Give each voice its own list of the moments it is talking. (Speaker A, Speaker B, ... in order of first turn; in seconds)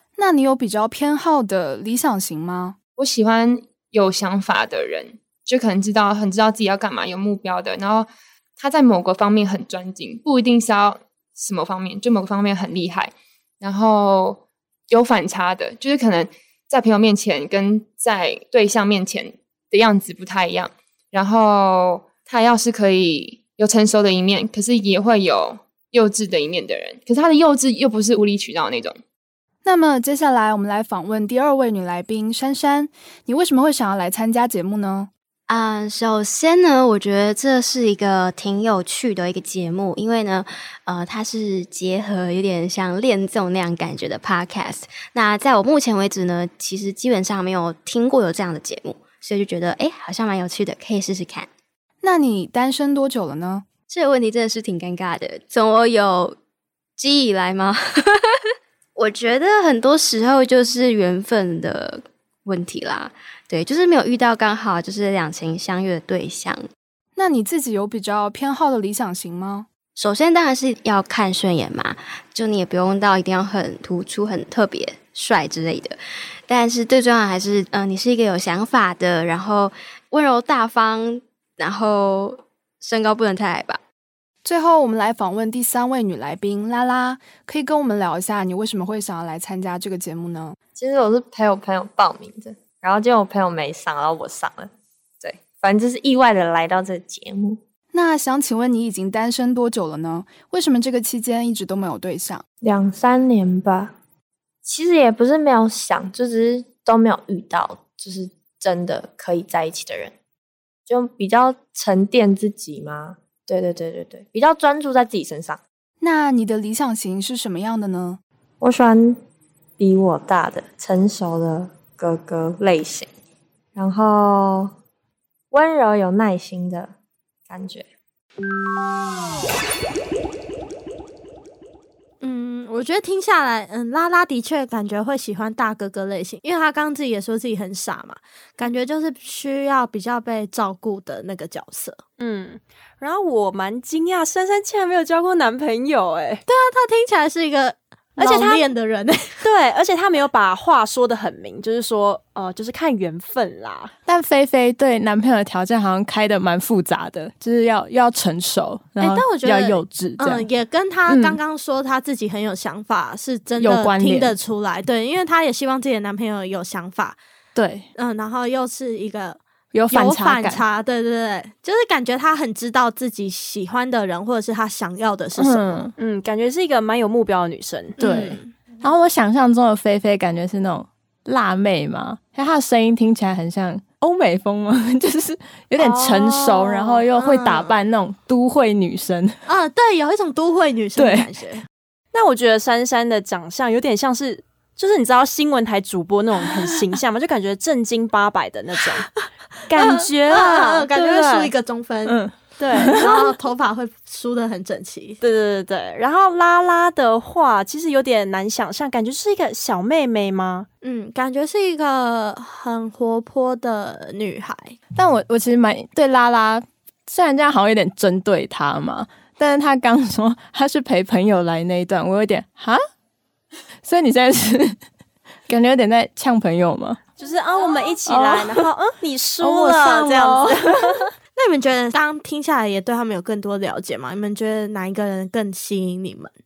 Speaker A: 0.2-2.8, 29.6-35.1, 52.0-53.7, 67.2-69.7, 84.5-90.6, 97.9-102.4, 116.0-118.2
Speaker B: 3.0-29.0
Speaker C: 35.5-51.5, 53.9-56.4, 57.0-66.7, 70.0-83.8
Speaker D: 90.8-97.6, 102.6-104.0, 104.7-110.1, 110.9-115.6, 118.6-119.2, 119.8-123.1, 123.8-124.7, 125.5-126.9, 127.5-127.9
Speaker E: 132.2-142.0, 146.5-149.4, 159.0-167.2, 168.0-169.4, 169.9-175.8, 178.0-178.5, 187.1-187.8, 189.5-191.6, 199.7-205.2, 210.8-214.8, 231.3-236.3
Speaker F: 142.2-146.4, 148.2-148.6, 149.4-153.9, 176.0-178.0, 192.1-199.1, 199.7-201.5, 202.6-203.2, 205.2-210.7, 227.2-231.0
Speaker G: 154.1-160.5, 161.1-161.4, 163.6-164.3, 167.6-167.9, 169.7-170.6, 175.4-175.9, 178.0-189.4, 191.0-191.3, 202.1-203.1, 215.0-222.8, 223.8-224.8, 225.5-227.0, 228.1-228.7, 229.4-230.9